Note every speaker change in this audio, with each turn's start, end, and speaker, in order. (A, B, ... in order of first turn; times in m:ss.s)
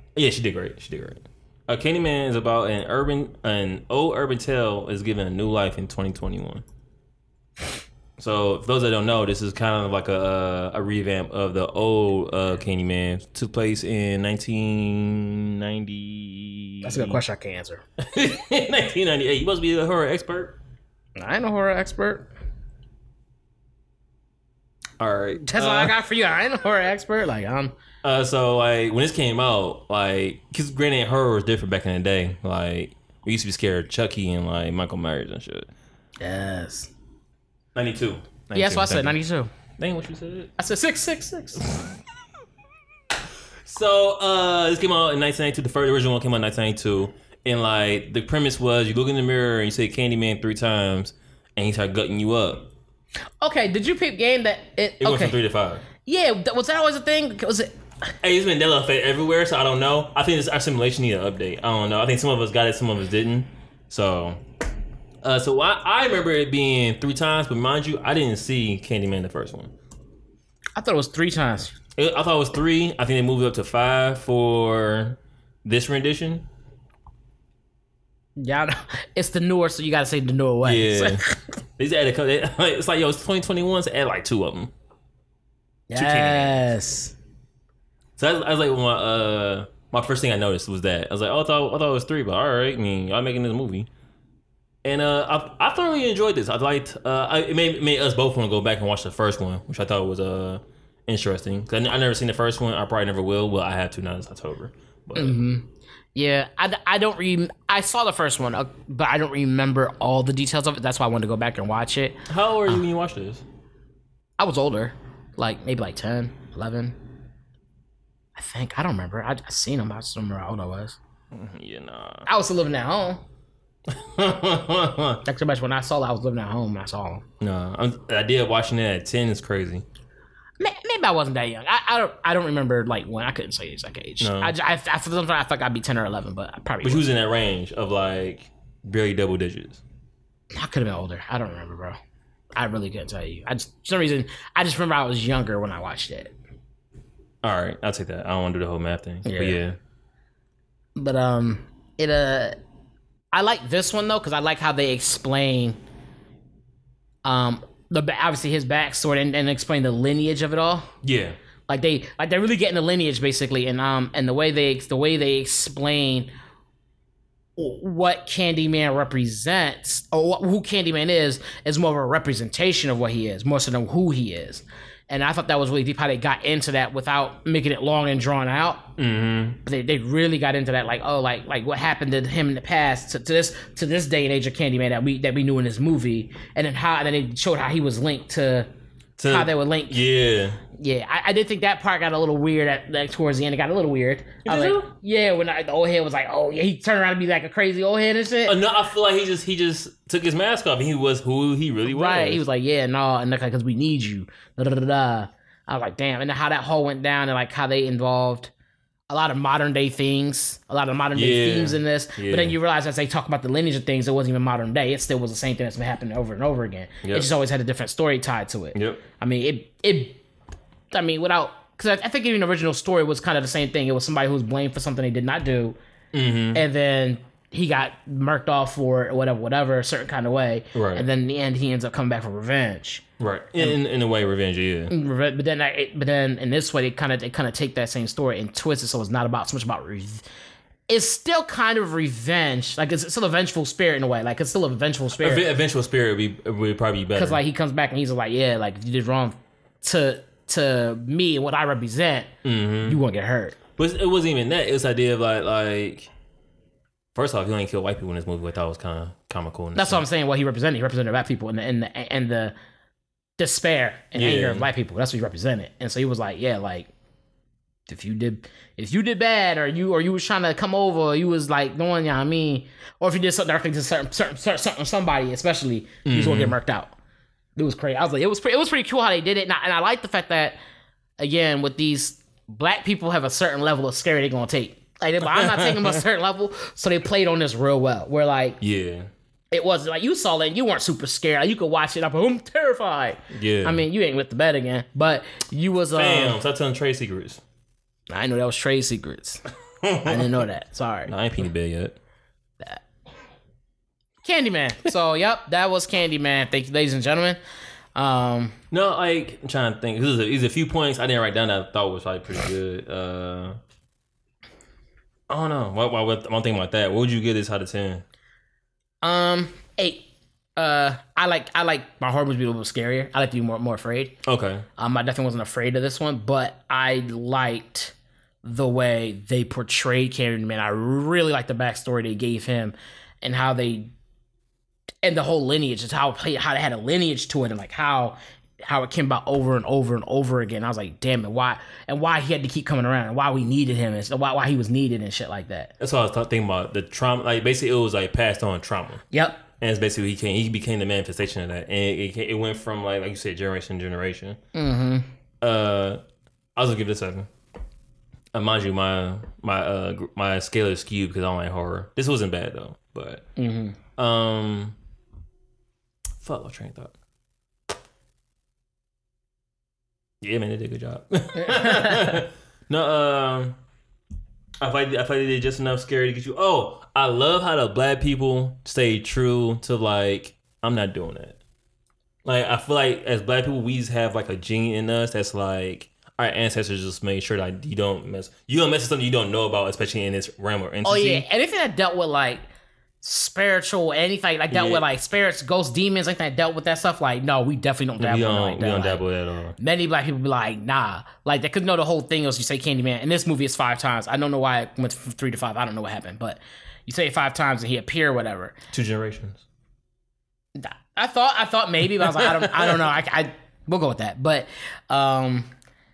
0:00.2-0:06.6 A
0:08.2-0:17.2 A
0:16.8-0:17.8 B
0:18.0-0:20.6 A
0:21.2-0:22.3 B
0:25.0-0:25.9 A
0:25.5-0:27.7 B
0:28.0-0:35.7 A
0:36.2-0:36.9 B
0:37.8-0:39.2 A
0:38.5-0:39.5 B
0:39.8-0:40.5 A
0:40.6-0:41.6 B
0:43.7-0:52.7 A
0:53.4-0:55.4 B
0:55.0-0:55.8 A
0:56.0-0:57.7 B
0:58.2-1:04.4 A
1:05.2-1:09.7 A
1:10.8-1:11.8 B
1:12.0-1:16.5 A
1:18.4-1:21.4 B
1:20.6-1:21.2 A
1:21.8-1:24.7 A
1:25.9-1:27.1 B
1:25.9-1:26.7 A
1:28.2-1:33.9 A
1:34.8-1:45.4 A
1:45.2-1:52.8 B
1:52.3-1:53.4 A
1:54.4-1:57.0 B
1:58.4-2:01.0 B
2:01.3-2:02.3 A
2:02.3-2:03.2 B
2:03.9-2:05.2 A
2:05.2-2:07.2 B
2:07.4-2:09.8 A
2:10.6-2:17.1 B
2:14.2-2:14.5 A
2:16.8-2:19.8 A
2:20.5-2:22.0 B
2:22.6-2:26.4 B
2:27.4-2:29.8 A
2:29.2-2:29.6 B
2:31.0-2:32.6 B
2:33.3-2:35.8 B
2:37.2-2:40.9 B
2:41.0-2:41.4 A
2:41.7-2:46.3 B
2:47.6-2:58.9 B
2:59.0-2:59.6 A
2:59.6-3:08.7 B
3:09.2-3:10.6 A
3:09.2-3:10.0 B
3:10.8-3:18.6 B
3:14.4-3:14.9 A
3:18.5-3:22.4 A
3:21.9-3:28.5 B
3:29.1-3:40.2 B
3:31.1-3:32.6 A
3:38.7-3:39.0 A
3:40.9-3:45.8 B
3:46.1-3:46.6 A
3:46.5-3:53.0 B
3:50.7-3:51.1 A
3:53.2-3:54.9 A
3:54.9-4:00.2 B
4:00.9-4:05.4 B
4:05.2-4:07.4 A
4:07.2-4:12.3 B
4:12.4-4:13.0 A
4:12.8-4:13.6 B
4:13.8-4:16.1 A
4:17.2-4:20.0 A
4:19.8-4:22.6 B
4:23.4-4:26.9 B
4:24.2-4:24.7 A
4:27.9-4:36.9 B
4:36.1-4:36.6 A
4:37.6-4:40.6 B
4:41.2-4:48.6 B
4:45.2-4:46.0 A
4:48.6-4:49.1 A
4:49.5-4:56.4 B
4:53.3-4:53.8 A
4:55.9-4:57.4 A
4:58.1-4:59.4 B
4:59.8-5:00.4 A
5:00.0-5:01.1 B
5:01.1-5:02.0 A
5:04.2-5:07.4 B
5:08.0-5:08.6 B
5:08.7-5:13.6 A
5:15.3-5:18.0 A
5:19.0-5:24.2 B
5:24.2-5:24.7 A
5:24.8-5:33.9 B
5:35.0-5:45.7 B
5:45.8-5:49.0 A
5:49.1-5:49.4 B
5:49.6-5:54.4 A
5:54.5-5:55.1 B
5:55.4-5:56.0 A
5:56.6-5:57.3 A
5:58.3-6:03.2 A
6:03.4-6:03.8 B
6:04.0-6:04.8 A
6:06.2-6:06.9 A
6:10.2-6:13.6 A
6:11.4-6:12.2 B
6:14.6-6:21.4 A
6:22.2-6:31.3 A
6:30.8-6:32.5 B
6:33.0-6:39.0 B
6:34.5-6:34.8 A
6:38.0-6:39.6 A
6:39.6-6:48.6 B
6:48.7-6:49.4 A
6:50.6-6:55.5 B
6:52.0-6:52.8 A